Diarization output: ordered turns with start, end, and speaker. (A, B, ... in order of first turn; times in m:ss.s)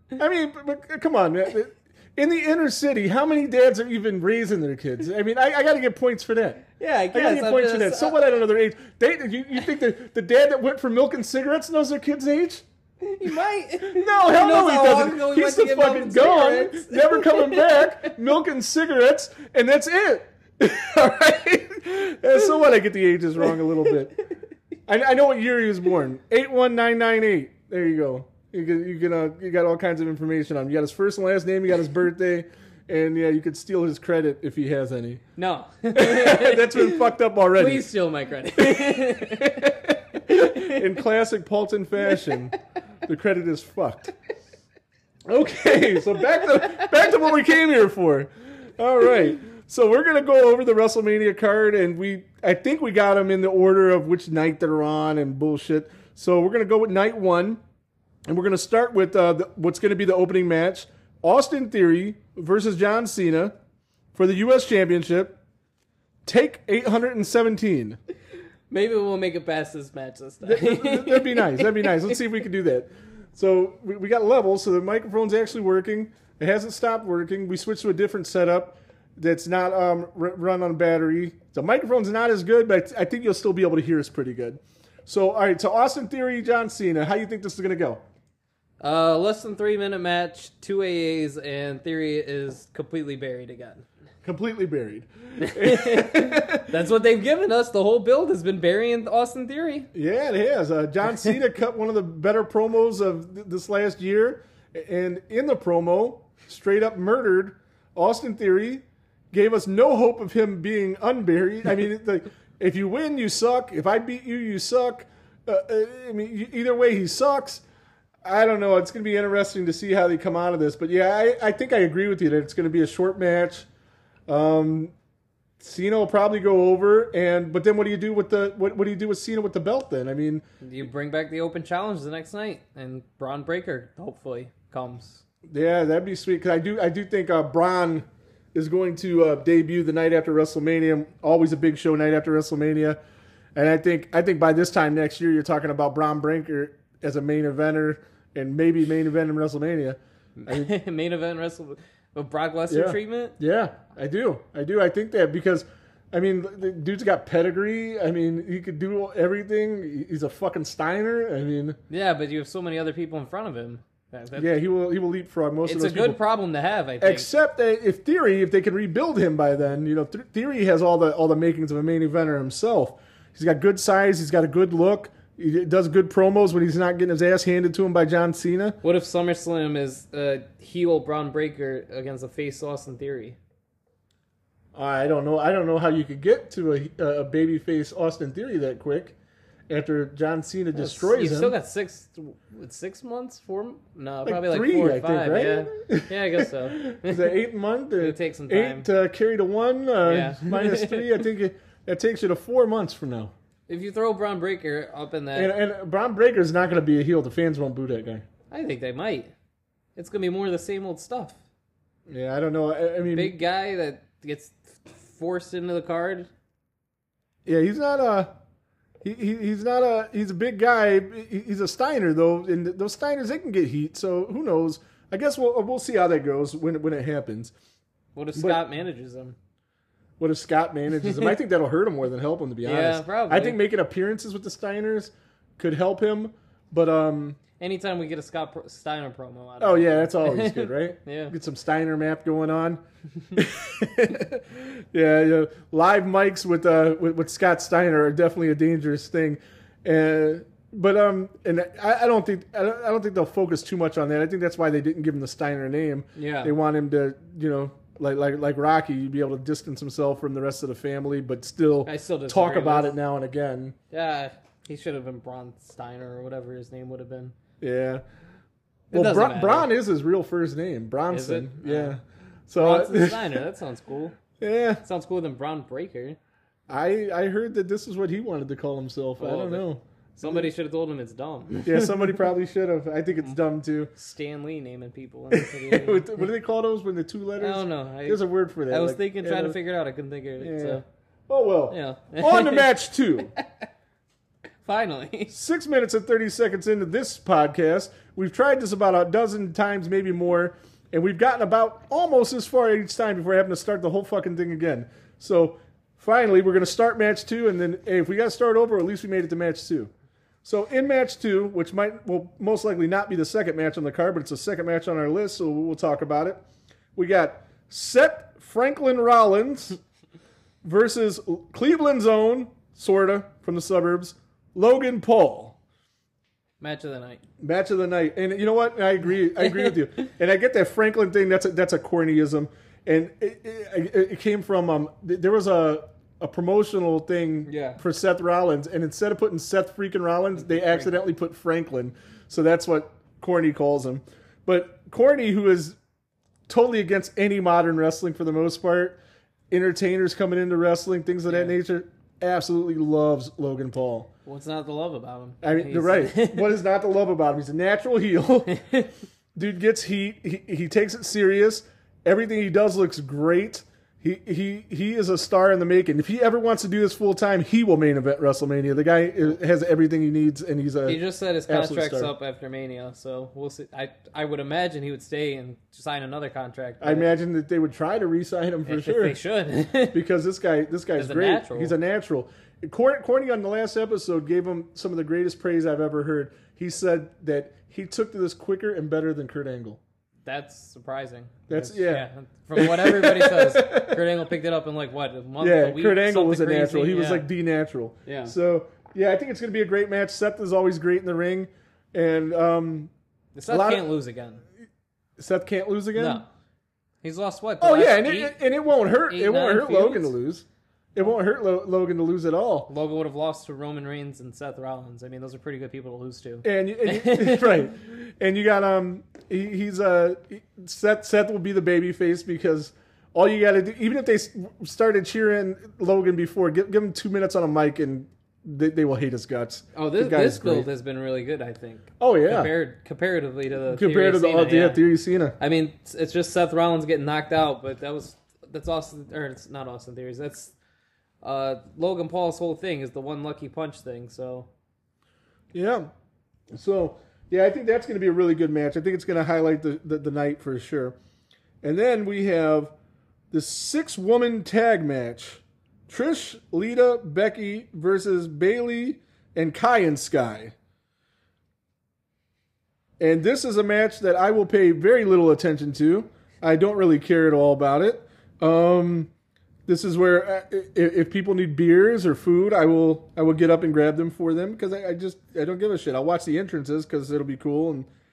0:00.2-0:12.6 A
0:06.8-0:08.2 B
0:13.0-0:18.1 B
0:13.8-0:24.2 A
0:24.9-0:35.2 A
0:35.4-0:37.0 B
0:35.9-0:37.9 A
0:37.6-0:40.9 B
0:38.6-0:44.1 A
0:45.3-0:57.6 A
0:58.2-1:03.5 A
1:04.1-1:05.4 A
1:06.2-1:08.0 A
1:08.7-1:12.2 B
1:10.4-1:28.0 A
1:28.8-1:33.8 B
1:34.2-1:36.7 A
1:35.4-1:39.9 B
1:39.9-1:57.6 A
1:58.2-2:03.7 A
2:04.3-2:04.9 A
2:05.6-2:10.4 A
2:10.6-2:15.2 B
2:15.4-2:23.0 A
2:23.5-2:30.7 A
2:30.4-2:33.4 B
2:32.7-2:41.8 A
2:41.9-2:44.6 B
2:44.4-2:46.2 A
2:45.6-2:47.3 B
2:47.0-2:58.8 A
2:58.8-3:03.4 B
3:04.7-3:09.1 A
3:09.7-3:11.5 A
3:10.7-3:17.4 B
3:14.2-3:23.3 A
3:18.0-3:18.9 B
3:20.0-3:21.2 B
3:23.7-3:25.5 B
3:25.3-3:28.2 A
3:28.5-3:29.3 B
3:30.0-3:31.4 B
3:32.1-3:33.4 A
3:33.1-3:36.3 B
3:37.4-3:38.3 A
3:39.0-3:47.5 A
3:48.1-3:49.3 B
3:48.3-3:48.6 A
3:50.2-3:57.4 A
3:51.0-3:51.3 B
3:52.6-3:53.6 B
3:57.6-4:01.3 B
3:59.6-4:02.8 A
4:03.3-4:23.8 A
4:16.2-4:16.5 B
4:21.8-4:23.0 B
4:23.9-4:27.3 B
4:27.6-4:28.0 A
4:28.9-4:29.7 B
4:28.9-4:33.4 A
4:31.1-4:32.0 B
4:32.6-4:34.2 B
4:34.4-4:34.8 A
4:34.8-4:36.2 B
4:36.7-4:40.5 A
4:39.2-4:42.3 B
4:41.6-4:43.9 A
4:43.9-4:46.1 B
4:45.3-4:49.6 A
4:47.4-4:50.8 B
4:50.4-4:53.3 A
4:51.7-4:52.8 B
4:54.6-4:55.3 B
4:55.3-5:09.9 A
5:10.4-5:16.4 A
5:17.0-5:19.8 A
5:20.6-5:25.6 A
5:26.6-5:27.2 B
5:27.4-5:45.8 A
5:29.4-5:29.7 B
5:37.4-5:37.8 B
5:40.4-5:41.1 B
5:46.5-5:49.0 A
5:49.5-5:54.1 A
5:51.3-5:51.6 B
5:54.2-5:56.6 B
5:55.4-5:58.5 A
5:58.5-5:58.9 B
5:59.3-6:12.1 A
6:10.8-6:17.1 B
6:16.8-6:19.2 A
6:18.6-6:20.0 B
6:19.9-6:29.8 A
6:21.0-6:21.7 B
6:30.2-6:37.3 B
6:31.5-6:34.0 A
6:35.4-6:42.9 A
6:38.0-6:38.3 B
6:43.3-6:44.4 B
6:43.5-6:43.9 A
6:45.2-6:46.2 A
6:46.0-6:46.3 B
6:47.0-6:48.4 B
6:47.6-6:52.7 A
6:49.1-6:50.1 B
6:52.7-6:57.7 B
6:56.4-7:10.7 A
7:09.7-7:14.8 B
7:12.0-7:12.5 A
7:13.7-7:15.4 A
7:15.4-7:20.5 B
7:21.2-7:24.5 B
7:25.5-7:25.9 A
7:26.5-7:31.0 A
7:31.6-7:32.7 A
7:33.3-7:40.5 A
7:43.0-7:49.1 A
7:49.7-7:57.9 A